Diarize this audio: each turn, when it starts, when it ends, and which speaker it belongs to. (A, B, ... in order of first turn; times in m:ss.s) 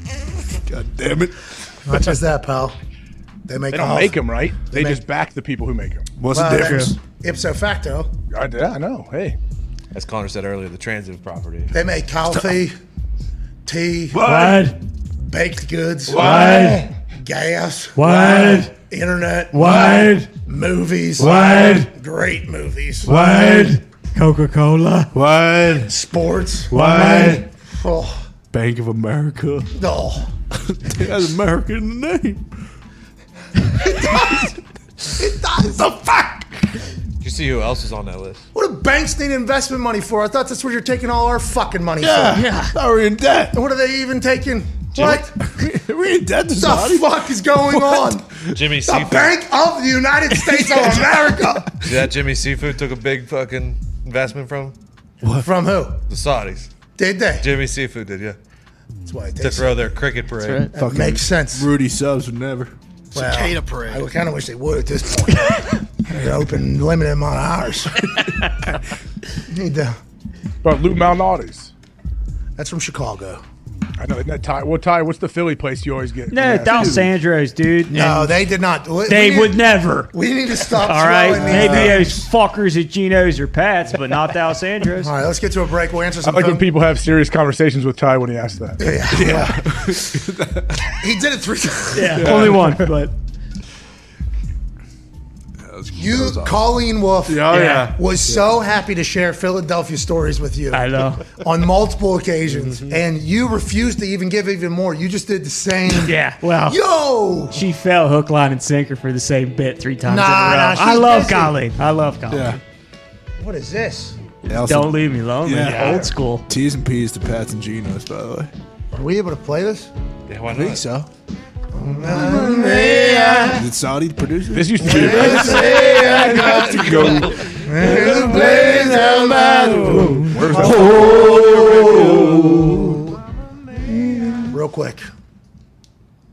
0:00.5-0:01.4 A
0:01.8-0:02.8 B
0:03.5-0:05.0 B
0:03.7-0:06.1 C
0:06.2-0:07.0 A
0:06.3-0:08.1 B
0:06.6-0:06.9 D
0:08.3-0:09.4 C
0:09.9-0:11.7 E
0:11.7-0:12.8 B
0:13.6-0:14.2 B
0:14.1-0:14.8 A
0:14.2-0:14.8 D
0:15.2-0:19.9 B
0:16.1-0:16.9 A
0:16.2-0:16.7 D
0:17.9-0:18.7 D
0:18.1-0:18.6 A
0:19.5-0:20.3 D
0:19.5-0:20.3 A
0:20.4-0:23.1 B
0:21.2-0:21.9 A
0:23.0-0:23.8 A
0:23.1-0:25.1 D
0:25.1-0:25.9 A
0:25.8-0:28.2 B
0:26.7-0:27.4 A
0:26.7-0:27.4 D
0:28.5-0:29.7 A
0:29.7-0:30.2 B
0:30.5-0:32.5 A
0:33.8-0:34.5 B
0:33.8-0:34.5 A
0:35.2-0:35.9 B
0:35.8-0:36.6 A
0:37.2-0:38.4 E
0:38.5-0:42.7 B
0:42.0-0:43.6 A
0:42.4-0:42.6 D
0:43.5-0:45.4 B
0:45.0-0:48.5 A
0:46.6-0:48.3 B
0:48.5-0:49.4 E
0:48.8-0:51.8 B
0:50.3-0:51.2 A
0:51.8-0:54.7 E
0:55.3-0:56.0 B
0:56.1-0:56.7 E
0:57.0-0:57.4 B
0:57.4-0:58.4 E
0:59.1-0:59.8 B
0:59.4-1:00.7 E
1:00.6-1:04.0 A
1:00.7-1:01.7 B
1:03.1-1:08.2 B
1:09.5-1:10.0 B
1:10.6-1:11.7 C
1:12.6-1:13.4 B
1:14.0-1:16.5 C
1:16.3-1:18.4 D
1:16.4-1:17.1 A
1:17.9-1:22.3 B
1:19.1-1:20.1 D
1:20.7-1:25.1 D
1:21.3-1:22.0 A
1:25.0-1:26.7 B
1:26.2-1:28.8 C
1:28.8-1:30.1 B
1:29.1-1:30.9 A
1:31.0-1:32.5 B
1:31.9-1:33.1 D
1:32.0-1:32.7 A
1:35.6-1:36.7 A
1:35.9-1:47.6 B
1:37.2-1:38.5 A
1:37.5-1:37.9 D
1:40.7-1:41.2 D
1:42.4-1:43.0 A
1:46.0-1:46.8 D
1:47.5-1:52.6 D
1:50.0-1:51.6 B
1:52.3-1:52.6 A
1:53.4-1:54.2 B
1:54.4-1:58.5 A
1:54.5-1:56.4 D
1:55.7-1:56.0 E
1:58.9-1:59.9 B
2:00.3-2:00.8 E
2:00.5-2:01.1 A
2:01.7-2:03.7 B
2:02.0-2:13.1 A
2:04.5-2:07.1 C
2:04.8-2:13.0 B
2:09.4-2:10.3 D
2:10.3-2:11.0 C
2:11.0-2:12.3 E
2:14.1-2:14.4 D
2:14.5-2:15.0 B